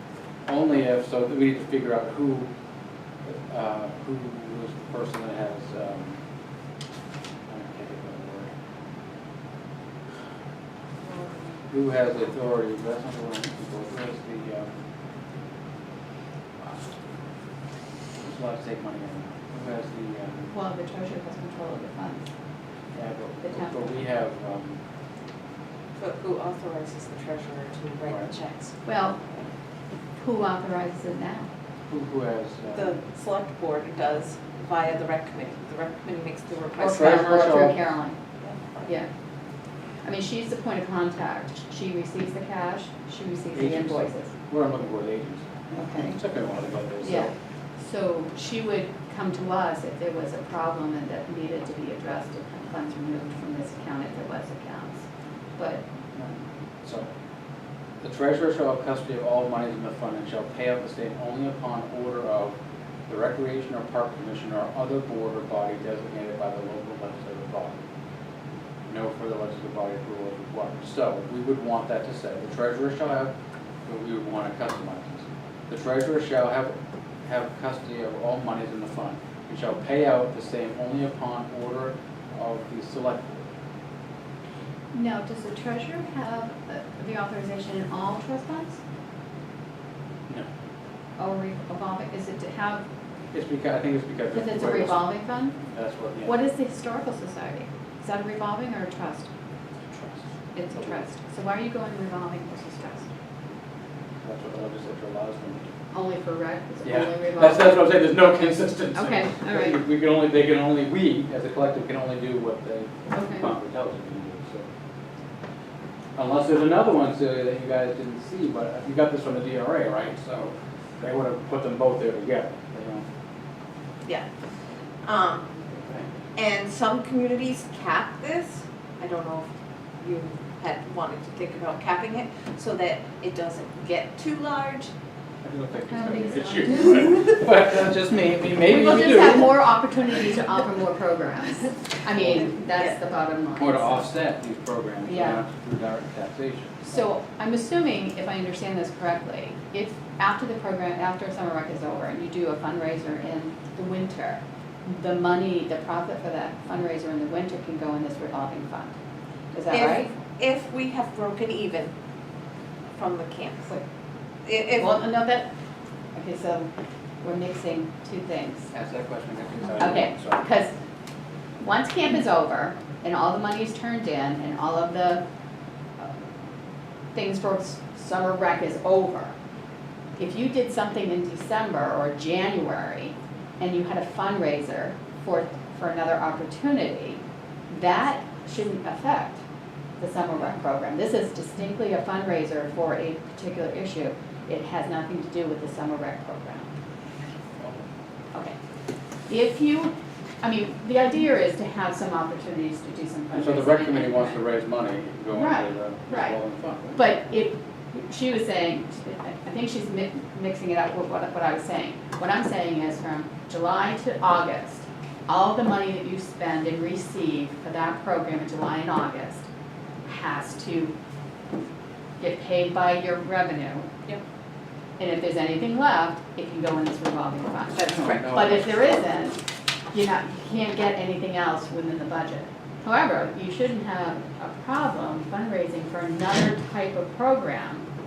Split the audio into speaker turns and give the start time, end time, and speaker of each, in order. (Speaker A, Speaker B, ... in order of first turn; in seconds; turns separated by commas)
Speaker A: 0.5-2.5, Speaker A: 3.2-6.2, Speaker A: 7.5-8.5, Speaker A: 11.7-14.7, Speaker A: 18.2-20.5, Speaker B: 20.5-22.3, Speaker A: 22.9-24.8, Speaker B: 23.4-23.9, Speaker C: 26.0-28.8, Speaker B: 28.9-29.2, Speaker B: 30.2-31.5, Speaker A: 31.9-33.0, Speaker C: 32.7-37.7, Speaker B: 36.8-38.2, Speaker A: 36.8-37.8, Speaker C: 38.4-38.9, Speaker B: 40.0-44.3, Speaker A: 43.5-47.3, Speaker B: 45.7-46.2, Speaker B: 47.0-55.0, Speaker B: 55.6-55.8, Speaker A: 56.2-57.1, Speaker A: 58.0-62.5, Speaker A: 63.1-67.8, Speaker A: 68.9-73.3, Speaker A: 73.9-76.7, Speaker A: 77.3-83.4, Speaker B: 84.9-88.8, Speaker B: 91.2-92.8, Speaker A: 93.3-96.3, Speaker B: 94.3-95.6, Speaker B: 96.2-99.3, Speaker A: 99.9-100.2, Speaker B: 100.5-103.1, Speaker A: 100.7-101.0, Speaker A: 104.2-105.7, Speaker B: 105.9-107.8, Speaker A: 106.8-114.7, Speaker B: 108.9-109.8, Speaker B: 113.1-113.5, Speaker A: 116.2-123.0, Speaker C: 125.0-125.5, Speaker A: 125.8-126.1, Speaker C: 126.3-129.5, Speaker C: 130.0-134.9, Speaker A: 135.4-139.7, Speaker B: 135.9-137.1, Speaker B: 138.6-144.1, Speaker A: 142.1-142.6, Speaker A: 143.6-146.9, Speaker B: 145.1-145.4, Speaker B: 146.8-158.9, Speaker B: 159.5-160.1, Speaker C: 159.7-161.9, Speaker C: 162.9-163.7, Speaker C: 164.4-164.9, Speaker B: 164.8-165.5, Speaker B: 166.1-166.7, Speaker B: 167.2-168.7, Speaker A: 168.7-170.4, Speaker B: 169.8-170.7, Speaker B: 171.6-175.2, Speaker B: 177.1-179.3, Speaker B: 180.2-187.2, Speaker B: 187.7-189.4, Speaker B: 190.0-196.7, Speaker B: 199.3-204.4, Speaker A: 203.3-207.0, Speaker B: 205.3-206.4, Speaker B: 206.9-219.5, Speaker B: 220.1-220.9, Speaker B: 222.2-223.9, Speaker B: 225.0-229.4, Speaker A: 227.8-229.0, Speaker B: 229.9-237.9